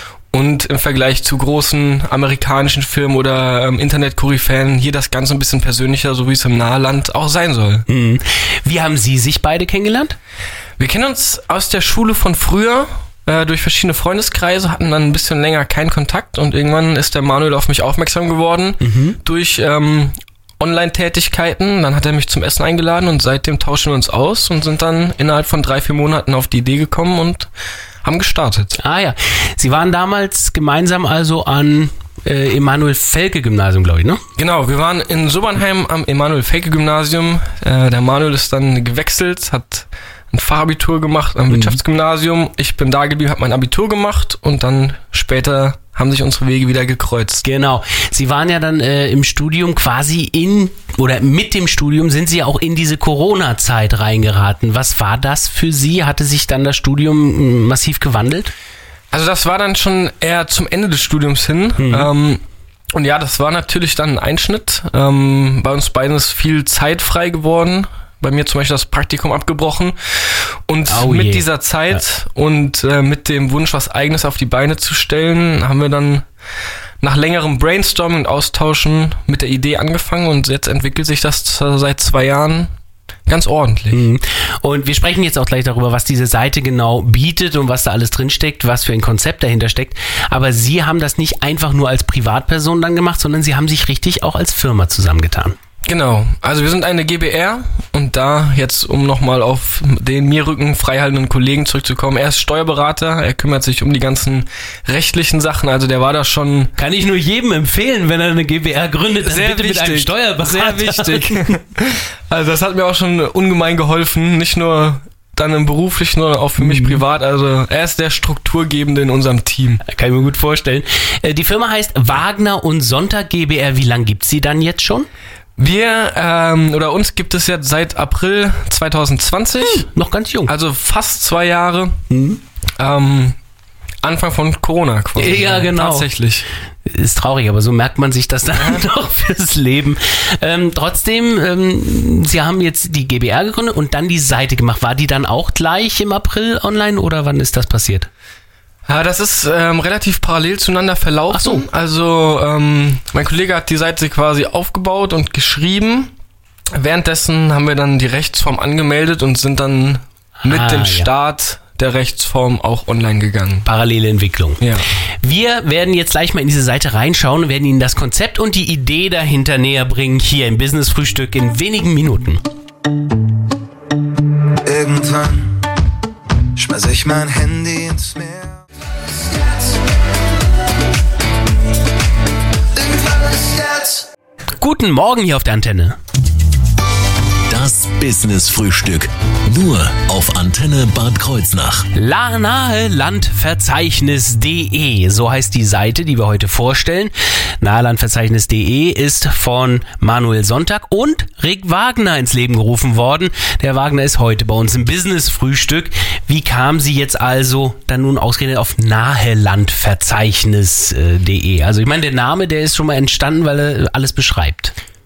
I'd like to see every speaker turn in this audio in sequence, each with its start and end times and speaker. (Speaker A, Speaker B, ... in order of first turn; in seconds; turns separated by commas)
Speaker A: 0.3-7.8, Speaker B: 7.9-10.2, Speaker A: 10.8-27.5, Speaker B: 18.8-19.2, Speaker A: 28.0-28.8, Speaker B: 28.8-34.2, Speaker A: 34.4-47.4, Speaker B: 41.5-41.8, Speaker B: 47.4-58.5, Speaker A: 59.1-62.4, Speaker B: 61.8-62.1, Speaker A: 62.9-76.3, Speaker B: 70.9-71.5, Speaker A: 77.0-82.7, Speaker A: 83.3-84.0, Speaker B: 83.9-95.5, Speaker A: 95.8-106.7, Speaker B: 106.8-111.4, Speaker A: 109.2-119.8, Speaker B: 116.6-117.0, Speaker B: 119.8-125.1, Speaker A: 125.6-129.9, Speaker B: 129.6-130.5, Speaker A: 130.5-132.0, Speaker B: 132.1-132.4, Speaker A: 132.8-133.4, Speaker A: 134.0-136.5, Speaker B: 135.2-136.1, Speaker B: 136.8-148.1, Speaker A: 148.9-156.1, Speaker B: 151.3-151.7, Speaker A: 156.8-163.7, Speaker B: 160.4-161.1, Speaker B: 163.6-164.6, Speaker A: 164.6-164.8, Speaker B: 165.2-172.4, Speaker C: 174.6-175.6, Speaker C: 176.6-178.5, Speaker C: 179.2-179.7, Speaker C: 182.8-184.1, Speaker B: 184.6-186.0, Speaker D: 187.5-191.9, Speaker B: 191.9-214.7